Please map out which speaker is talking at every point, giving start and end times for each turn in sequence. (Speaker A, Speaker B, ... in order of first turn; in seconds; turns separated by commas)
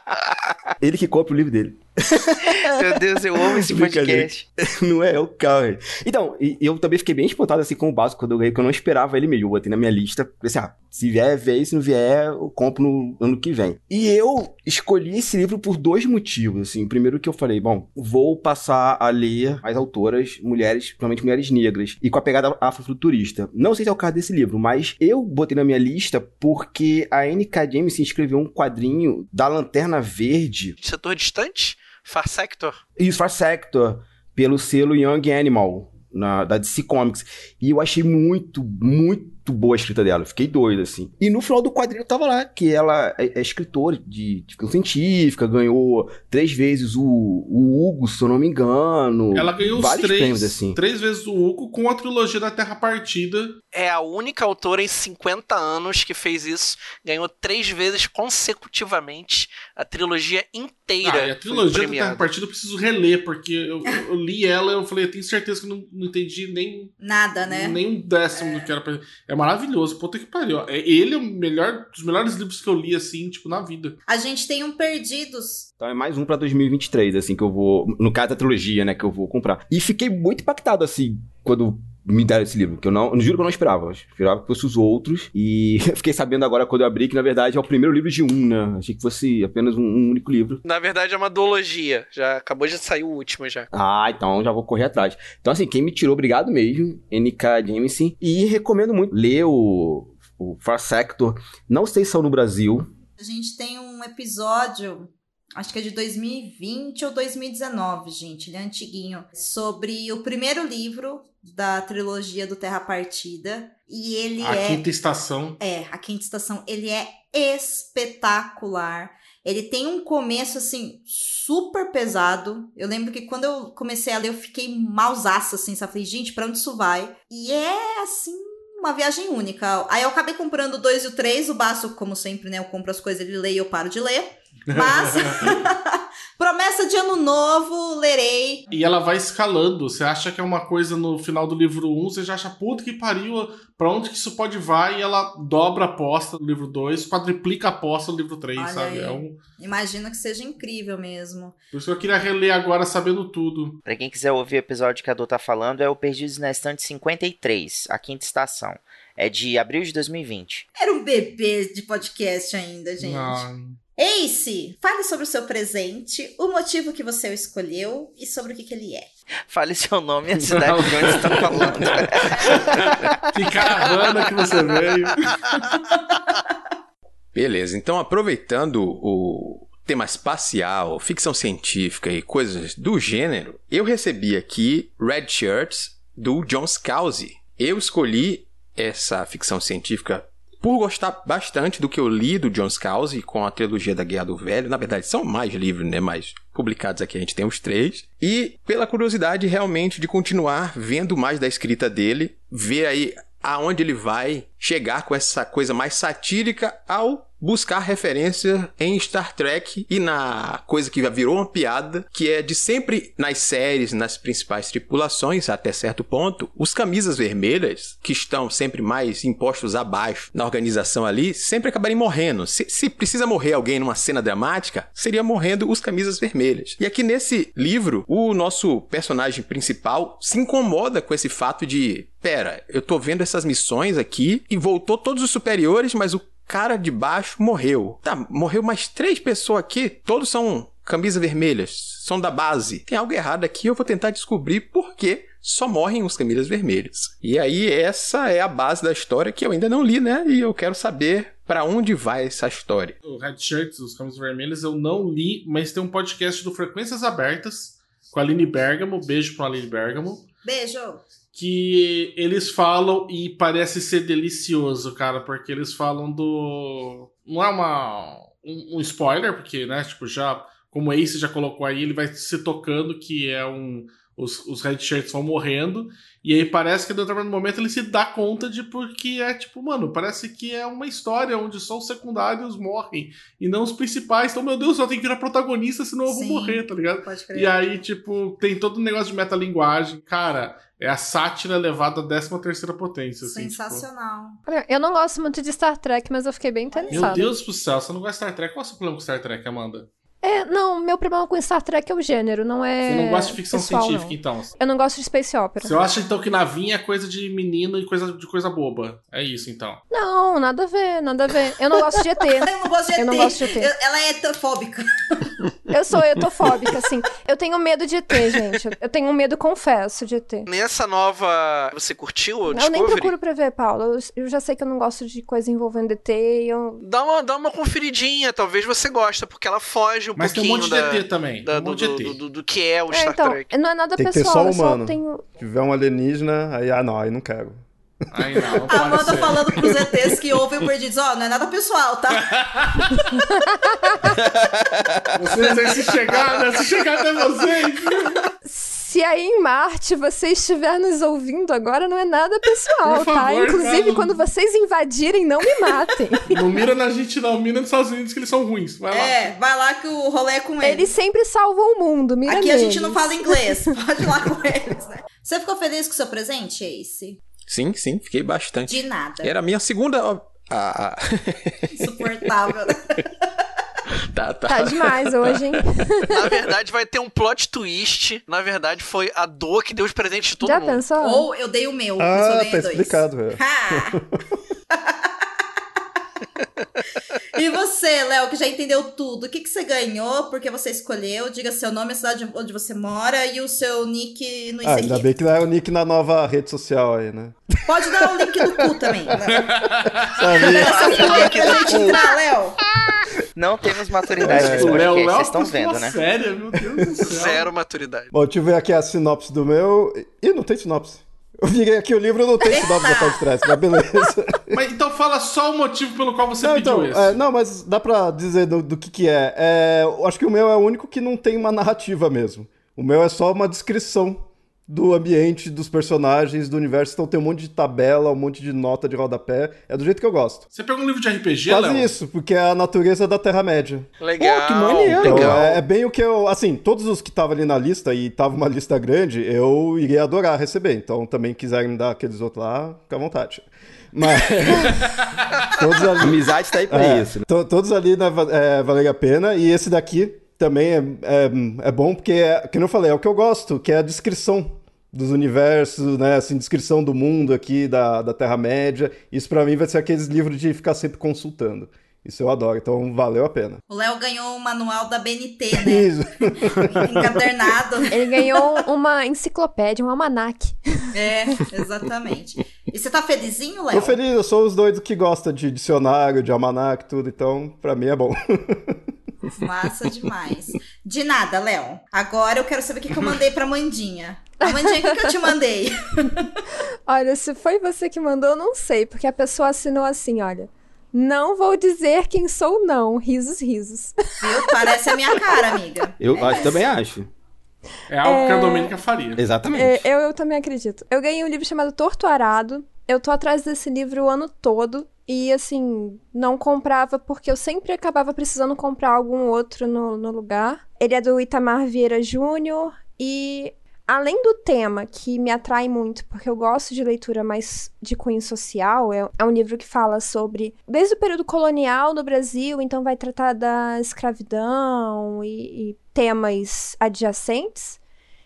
Speaker A: 0.8-2.5, Speaker B: 2.4-4.4, Speaker A: 3.4-30.8, Speaker C: 30.8-32.8, Speaker A: 33.0-50.8, Speaker D: 49.3-53.6, Speaker C: 53.7-62.3, Speaker D: 61.0-66.9, Speaker E: 67.0-67.8, Speaker D: 67.5-74.0, Speaker E: 68.3-68.7, Speaker E: 74.1-75.7, Speaker A: 75.8-90.6, Speaker C: 90.6-93.7, Speaker A: 93.7-102.9, Speaker E: 103.2-114.8, Speaker D: 114.4-115.6, Speaker E: 115.6-138.7, Speaker D: 134.7-135.6, Speaker D: 138.7-149.4, Speaker E: 148.6-151.6, Speaker D: 151.7-153.8, Speaker B: 153.8-160.7, Speaker E: 160.8-163.4, Speaker D: 163.0-163.8, Speaker E: 164.0-169.1, Speaker B: 169.5-173.2, Speaker D: 170.5-175.7, Speaker F: 177.3-252.9, Speaker D: 253.0-260.2, Speaker E: 260.4-261.0, Speaker D: 261.3-293.9, Speaker E: 286.1-287.7, Speaker E: 293.2-294.4, Speaker G: 294.5-297.3, Speaker E: 296.7-297.3, Speaker D: 296.9-299.9, Speaker G: 300.2-305.8, Speaker D: 302.8-304.5, Speaker D: 305.6-309.8, Speaker G: 309.9-313.7, Speaker E: 312.4-315.4, Speaker G: 315.7-320.5, Speaker C: 320.5-323.1, Speaker G: 322.5-326.8, Speaker C: 326.8-333.5, Speaker D: 330.1-332.2, Speaker G: 332.9-335.3, Speaker H: 333.9-337.6, Speaker D: 338.1-339.8, Speaker H: 338.1-338.6, Speaker E: 338.7-342.3, Speaker D: 342.2-343.1, Speaker G: 343.3-344.1, Speaker A: 344.3-345.0, Speaker D: 345.1-348.2, Speaker G: 348.4-356.5, Speaker D: 352.8-354.2, Speaker D: 356.3-359.3, Speaker E: 358.9-360.9, Speaker G: 360.6-363.7, Speaker E: 362.2-367.2, Speaker F: 367.4-371.8, Speaker E: 368.6-369.3, Speaker E: 371.7-373.1, Speaker F: 373.9-375.6, Speaker G: 374.4-376.4, Speaker C: 376.1-380.8, Speaker G: 380.4-381.3, Speaker E: 381.0-384.0, Speaker H: 382.0-384.1, Speaker E: 384.7-385.1, Speaker E: 387.3-395.1, Speaker H: 394.6-398.6, Speaker E: 397.7-399.5, Speaker D: 399.3-401.4, Speaker H: 400.0-402.0, Speaker E: 400.4-402.6, Speaker B: 401.0-401.9, Speaker B: 403.3-406.0, Speaker D: 404.2-407.5, Speaker H: 404.2-404.9, Speaker H: 406.7-407.0, Speaker C: 407.1-408.1, Speaker H: 408.1-414.6, Speaker E: 412.5-413.2, Speaker D: 414.5-417.2, Speaker H: 416.4-430.4, Speaker D: 430.5-431.9, Speaker H: 431.4-433.9, Speaker C: 434.0-435.6, Speaker A: 434.2-435.5, Speaker H: 434.9-463.6, Speaker A: 446.0-447.2, Speaker E: 463.7-468.4, Speaker H: 465.5-467.2, Speaker G: 467.9-470.9, Speaker E: 470.9-474.0, Speaker H: 473.7-478.8, Speaker E: 479.4-486.3, Speaker G: 484.4-485.1, Speaker G: 486.9-495.6, Speaker E: 494.2-496.6, Speaker A: 496.0-497.1, Speaker D: 497.9-499.2, Speaker G: 498.0-498.8, Speaker A: 499.2-499.9, Speaker G: 499.5-527.8